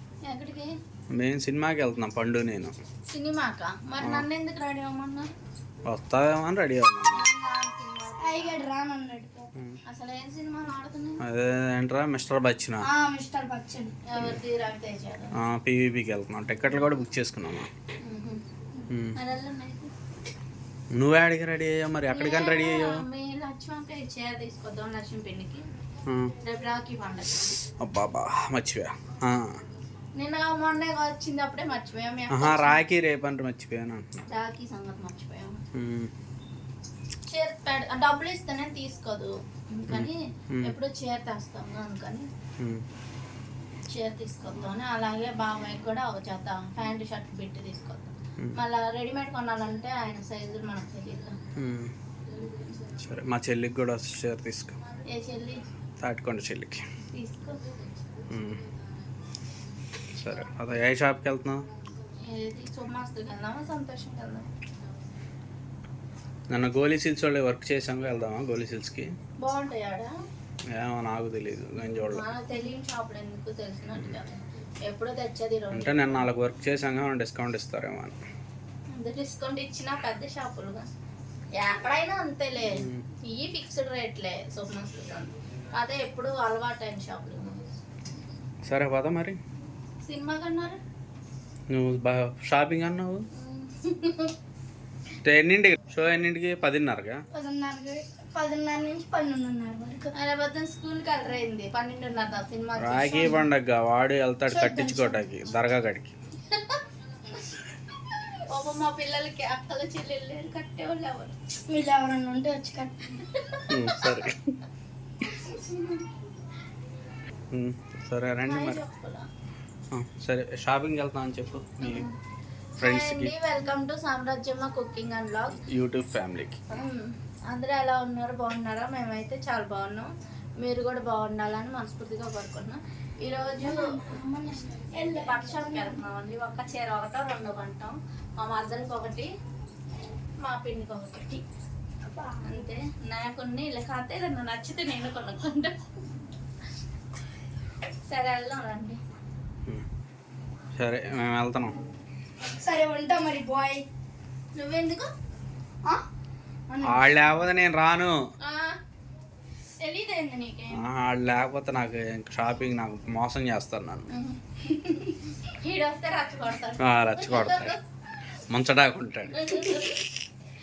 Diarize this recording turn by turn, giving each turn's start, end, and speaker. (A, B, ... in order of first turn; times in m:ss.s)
0:00.2-0:00.7 A
0:01.1-0:02.8 B
0:03.1-0:05.3 A
0:04.0-0:04.3 B
0:05.8-0:07.3 B
0:07.1-0:08.7 A
0:08.2-0:09.5 C
0:09.9-0:11.2 A
0:11.2-0:12.9 B
0:12.8-0:13.9 C
0:14.1-0:15.4 A
0:15.4-0:17.7 B
0:18.0-0:18.4 A
0:18.9-0:19.2 B
0:19.2-0:19.9 A
0:20.9-0:23.0 B
0:22.1-0:25.6 A
0:26.1-0:26.4 B
0:26.4-0:27.6 A
0:27.8-0:29.6 B
0:30.2-0:32.8 A
0:32.3-0:34.1 B
0:34.3-0:35.6 A
0:35.7-0:36.1 B
0:37.3-0:42.3 A
0:39.9-0:40.8 B
0:42.6-0:42.8 B
0:43.9-0:51.4 A
0:51.6-0:51.9 B
0:52.4-0:52.7 A
0:53.0-0:54.8 B
0:55.0-0:55.6 A
0:56.0-0:56.8 B
0:57.1-0:57.6 A
0:58.3-0:58.6 B
1:00.1-1:01.7 B
1:02.2-1:04.5 A
1:06.5-1:09.1 B
1:09.4-1:10.1 A
1:10.7-1:12.2 B
1:11.8-1:16.2 A
1:15.7-1:18.2 B
1:18.9-1:20.9 A
1:21.6-1:27.7 A
1:22.8-1:23.0 B
1:28.6-1:29.4 B
1:30.0-1:30.8 A
1:31.7-1:33.2 B
1:33.4-1:34.3 A
1:35.2-1:37.2 B
1:37.3-1:40.1 C
1:40.1-1:43.4 A
1:42.8-1:46.1 B
1:44.5-1:45.2 C
1:46.5-1:46.8 A
1:48.5-1:51.3 A
1:51.7-1:53.1 C
1:53.7-1:54.6 B
1:55.2-1:56.0 A
1:57.5-1:58.8 B
1:58.5-1:59.3 A
1:59.9-2:02.1 B
2:01.8-2:02.1 A
2:02.8-2:03.3 B
2:02.8-2:05.6 A
2:05.7-2:06.6 B
2:06.7-2:10.1 A
2:10.6-2:13.8 A
2:13.6-2:16.0 C
2:15.2-2:19.3 A
2:20.4-2:21.4 A
2:22.1-2:22.7 C
2:22.4-2:25.8 A
2:28.1-2:29.0 A
2:30.8-2:31.8 B
2:32.4-2:33.9 C
2:34.6-2:35.1 A
2:36.8-2:38.2 B
2:38.4-2:38.8 A
2:39.8-2:40.9 A
2:40.8-2:44.1 B
2:44.1-2:47.8 A
2:46.8-2:47.8 B
2:48.5-2:49.4 B
2:49.3-2:50.0 A